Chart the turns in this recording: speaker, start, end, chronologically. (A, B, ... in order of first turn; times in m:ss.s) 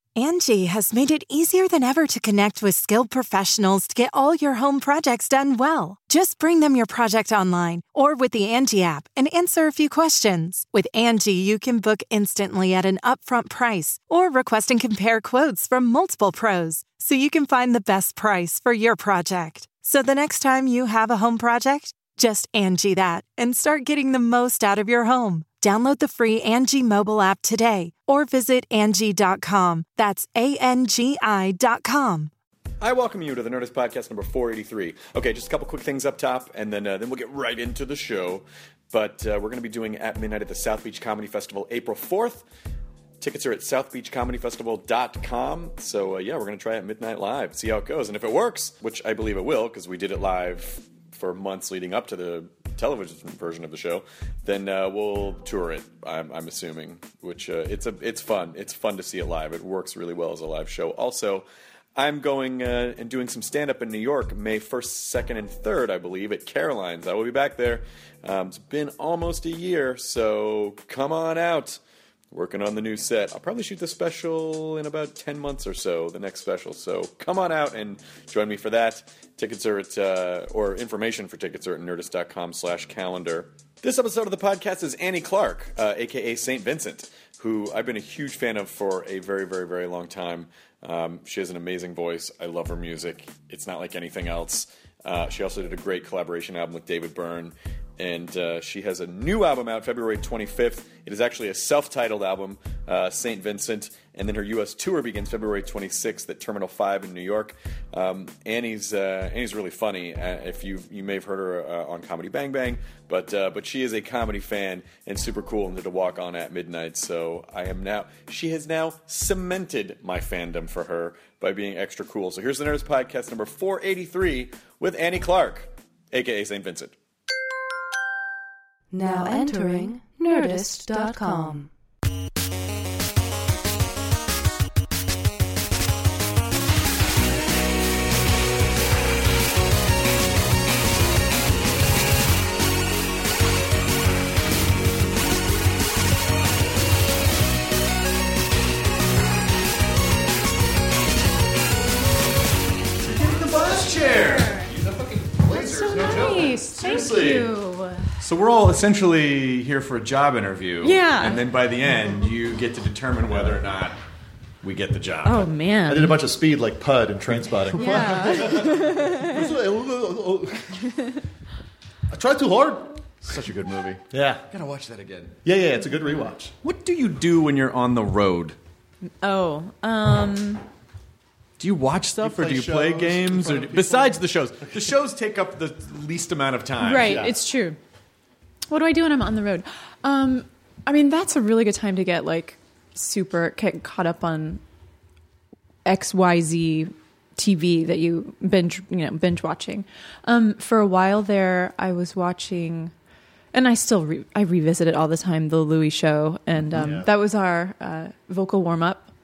0:00.2-0:32.3 A
0:32.8-0:42.4 B
0:43.2-1:11.8 B
1:12.3-2:06.9 B
2:08.9-2:11.7 C
2:33.0-2:37.5 B
2:34.2-2:34.7 D
2:35.3-2:37.4 E
2:35.5-2:38.1 D
2:38.2-2:44.0 B
2:40.8-2:41.4 D
2:44.6-2:45.5 B
2:45.2-2:46.2 D
2:45.9-2:50.9 E
2:47.7-2:48.7 B
2:47.8-2:49.5 D
2:52.1-2:53.0 E
2:53.2-2:55.4 B
2:54.1-2:54.4 E
2:55.4-2:56.5 E
2:56.6-2:58.6 B
2:59.2-3:00.6 D
3:01.6-3:07.2 B
3:02.2-3:04.2 E
3:06.8-3:07.8 D
3:07.0-3:07.3 E
3:08.7-3:14.6 D
3:15.8-3:22.9 D
3:23.5-3:29.1 D
3:26.8-3:27.1 E